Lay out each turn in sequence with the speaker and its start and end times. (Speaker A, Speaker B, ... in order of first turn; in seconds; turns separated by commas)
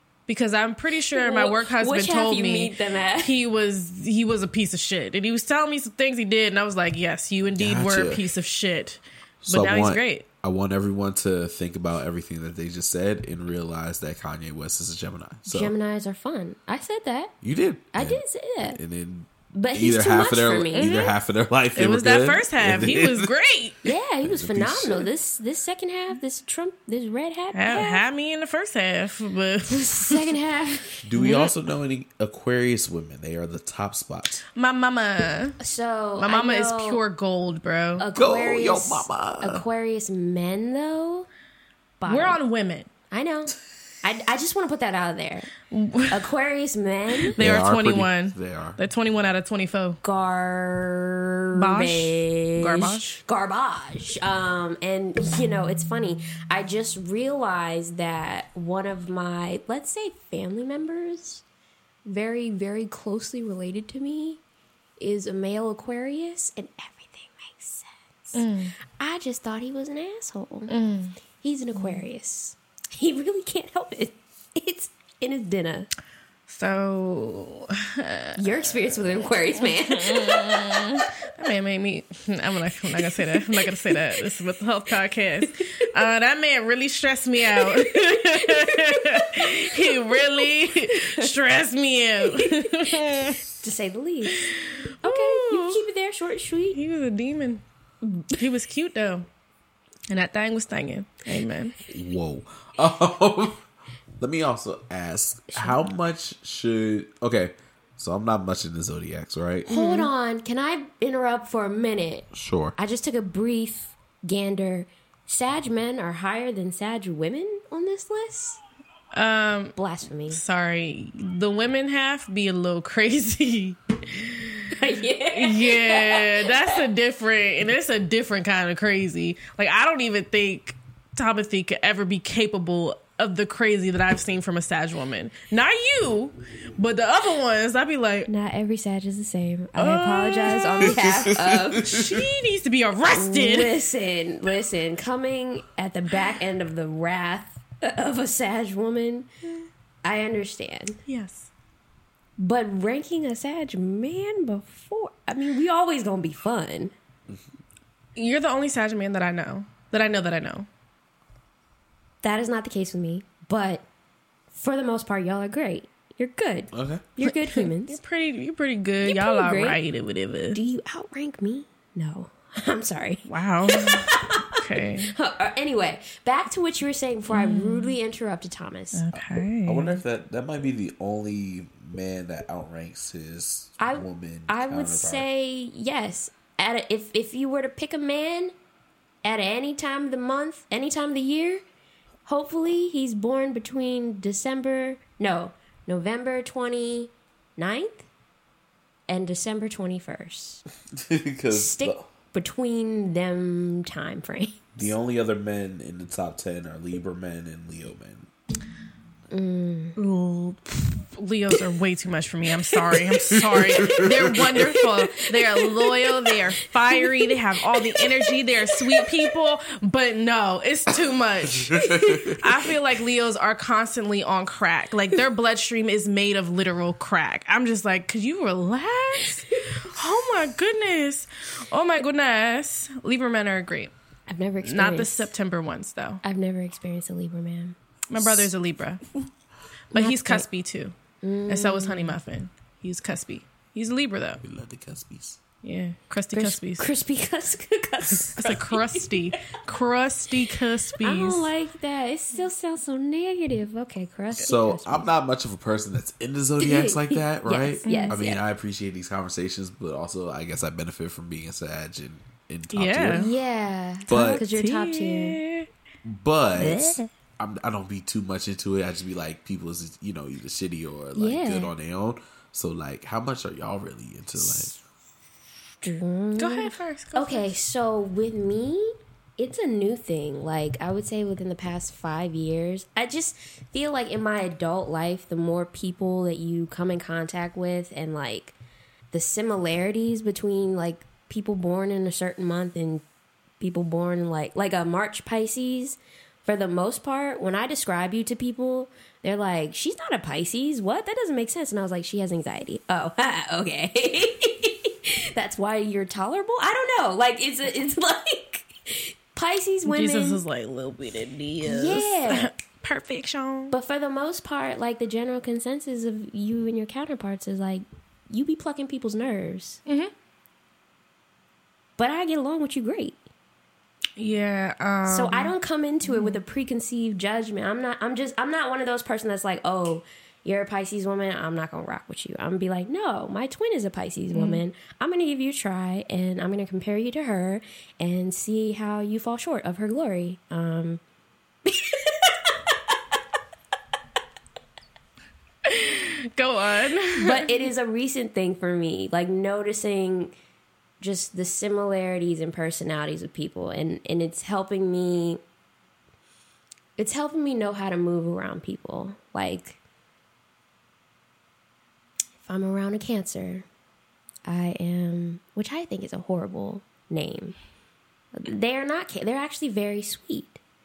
Speaker A: 0.3-10.2, Speaker B: 1.1-3.3, Speaker C: 7.5-8.2, Speaker C: 9.4-15.7, Speaker B: 15.5-17.3, Speaker C: 17.4-18.2, Speaker B: 17.9-18.8, Speaker C: 18.7-23.3, Speaker B: 19.5-20.9, Speaker A: 20.7-21.1, Speaker A: 21.7-23.8, Speaker B: 23.8-28.0, Speaker C: 24.2-25.1, Speaker A: 27.5-30.3, Speaker B: 29.7-31.5, Speaker C: 31.0-34.5, Speaker A: 34.5-35.6, Speaker B: 35.6-37.0, Speaker A: 36.2-38.0, Speaker B: 38.0-41.3, Speaker C: 38.1-39.6, Speaker B: 42.0-42.4, Speaker A: 42.0-42.9, Speaker B: 43.1-45.5, Speaker A: 45.7-46.2, Speaker B: 46.1-47.4, Speaker A: 47.3-50.0, Speaker C: 47.4-48.8, Speaker B: 50.0-61.4, Speaker A: 51.5-53.2, Speaker B: 62.0-64.4, Speaker B: 65.0-70.7, Speaker A: 68.3-68.7, Speaker A: 70.7-71.2, Speaker B: 71.4-75.9, Speaker A: 76.5-78.4, Speaker B: 78.3-81.0, Speaker A: 79.5-93.4, Speaker B: 87.6-91.3, Speaker B: 92.3-94.5, Speaker A: 94.3-95.8, Speaker B: 95.0-96.8, Speaker A: 96.7-97.6, Speaker B: 98.0-98.4, Speaker A: 98.3-99.3, Speaker A: 100.1-101.8, Speaker C: 101.9-103.6, Speaker C: 104.2-109.7, Speaker B: 105.5-105.8, Speaker B: 109.7-118.6, Speaker A: 109.7-110.1, Speaker C: 112.3-112.8, Speaker A: 119.1-119.8, Speaker B: 119.8-120.4, Speaker A: 120.3-124.7, Speaker B: 124.7-126.8, Speaker A: 125.3-138.3, Speaker B: 138.3-142.1, Speaker A: 139.8-141.0, Speaker C: 140.9-142.2, Speaker A: 141.7-143.7, Speaker B: 143.1-149.3, Speaker B: 150.0-151.0, Speaker A: 151.1-151.5, Speaker B: 152.4-156.9, Speaker A: 158.2-160.7, Speaker B: 162.2-163.8, Speaker B: 164.5-168.0, Speaker C: 166.7-167.1, Speaker A: 167.2-170.6, Speaker B: 169.0-169.8, Speaker B: 170.5-179.1, Speaker A: 173.3-175.1, Speaker A: 177.3-177.9, Speaker A: 178.9-180.0, Speaker C: 179.1-185.2, Speaker B: 183.8-188.5, Speaker B: 189.2-191.6, Speaker B: 192.2-198.1, Speaker B: 199.1-200.6, Speaker C: 200.9-202.1, Speaker B: 201.5-204.9, Speaker C: 204.8-208.3, Speaker B: 209.3-210.0, Speaker A: 210.0-233.9, Speaker C: 213.3-214.7, Speaker B: 214.6-216.0, Speaker B: 216.9-219.2, Speaker C: 221.7-222.4, Speaker B: 221.8-222.3, Speaker B: 234.3-235.3, Speaker A: 234.6-236.2, Speaker B: 236.2-237.8, Speaker A: 238.1-239.0, Speaker A: 239.9-240.9, Speaker B: 239.9-240.4, Speaker B: 241.2-242.2, Speaker A: 241.5-244.4, Speaker C: 244.4-245.4, Speaker A: 245.6-246.9, Speaker B: 246.3-249.6, Speaker A: 248.1-251.5, Speaker B: 250.5-255.1, Speaker C: 254.3-263.3, Speaker B: 256.6-258.4, Speaker A: 257.9-258.1, Speaker A: 262.7-263.3, Speaker B: 263.1-265.4, Speaker C: 264.1-264.4, Speaker A: 264.1-265.7, Speaker C: 266.0-274.8, Speaker A: 266.7-267.0, Speaker B: 271.1-271.7, Speaker B: 275.8-288.6, Speaker A: 276.4-277.5, Speaker B: 289.1-293.0, Speaker B: 293.6-310.4, Speaker A: 309.9-313.7, Speaker B: 311.6-312.5, Speaker B: 313.7-319.8, Speaker B: 322.0-323.2, Speaker A: 324.2-325.5, Speaker B: 325.1-341.0, Speaker A: 326.0-326.4, Speaker A: 334.3-334.6, Speaker B: 341.6-342.3, Speaker A: 345.6-347.5, Speaker B: 347.1-350.3, Speaker B: 351.0-355.4, Speaker B: 357.0-359.8, Speaker B: 362.4-363.6, Speaker B: 364.4-367.6, Speaker B: 368.3-370.6